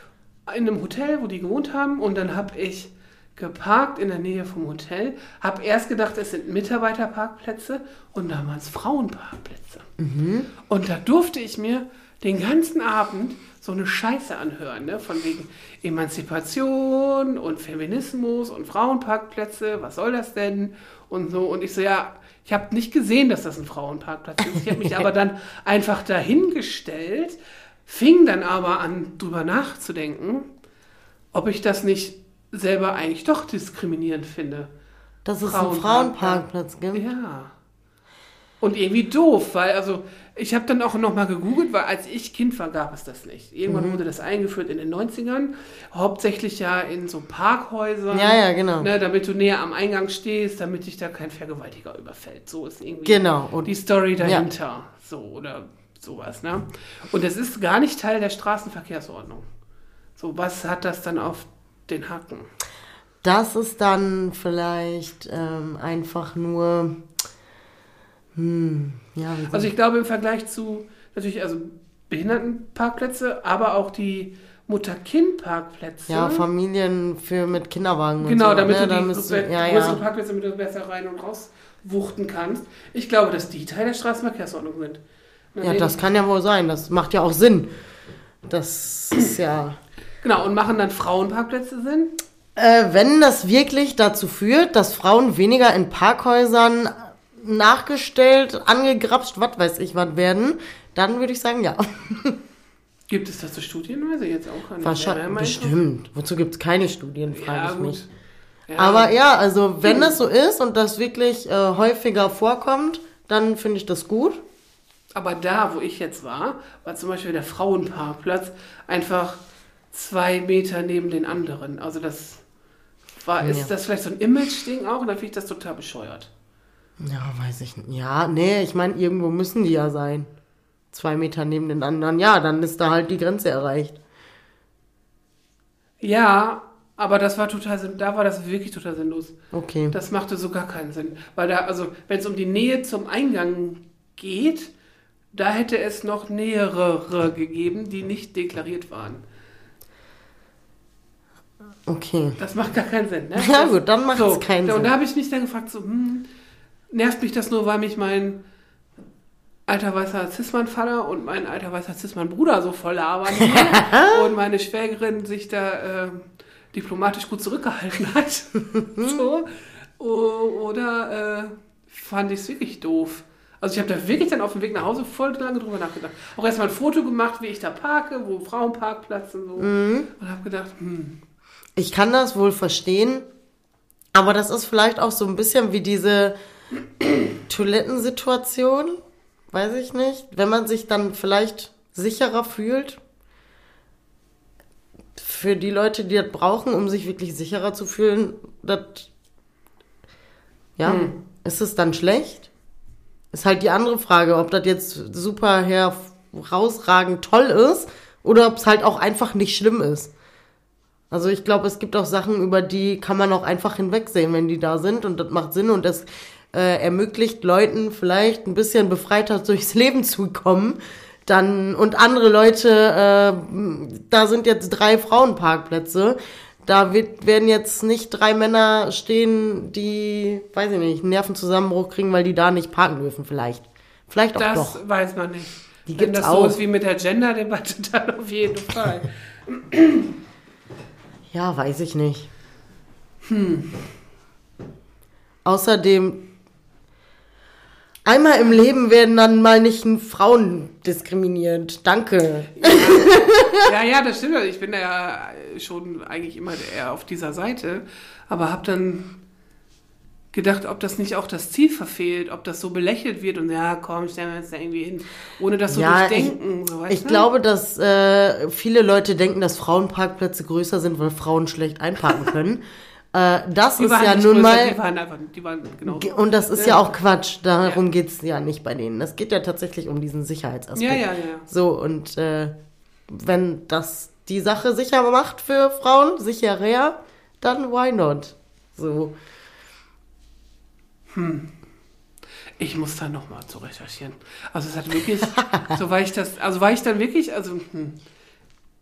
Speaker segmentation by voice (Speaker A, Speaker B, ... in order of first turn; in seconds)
Speaker A: 0.5-9.8, 10.7-30.5, 31.3-34.7, 35.4-37.5, 38.6-59.5, 60.2-62.5, 69.5-76.5, 78.2-85.0, 85.5-86.0, 90.2-92.1, 103.1-105.8, 107.3-108.1, 108.7-109.2, 109.8-110.2, 115.1-119.4, 119.9-122.4, 123.2-126.3, 136.0-139.3, 139.9-144.7, 145.3-149.2, 152.4-156.3, 156.9-158.4, 159.7-181.2, 200.8-201.2, 234.3-240.1, 243.2-243.9, 252.5-259.1, 260.3-267.3, 273.8-276.9, 280.7-281.5, 291.1-291.5, 292.6-298.0
Speaker B: 10.0-10.5, 35.2-37.0, 43.6-44.0, 48.1-48.9, 53.0-54.5, 63.2-67.0, 68.3-69.7, 76.1-80.0, 85.6-87.7, 88.5-89.8, 92.5-102.4, 104.8-108.0, 108.8-114.4, 123.4-123.7, 127.0-130.3, 130.9-134.0, 139.5-139.9, 151.8-152.4, 153.4-154.9, 163.4-164.2, 179.6-180.1, 181.8-183.2, 184.1-186.3, 187.5-193.0, 195.2-199.1, 200.8-202.5, 203.3-210.1, 211.1-234.8, 235.9-236.6, 241.3-242.3, 245.4-246.2, 248.0-253.6, 265.7-266.4, 266.9-274.8, 275.9-282.5, 283.1-289.1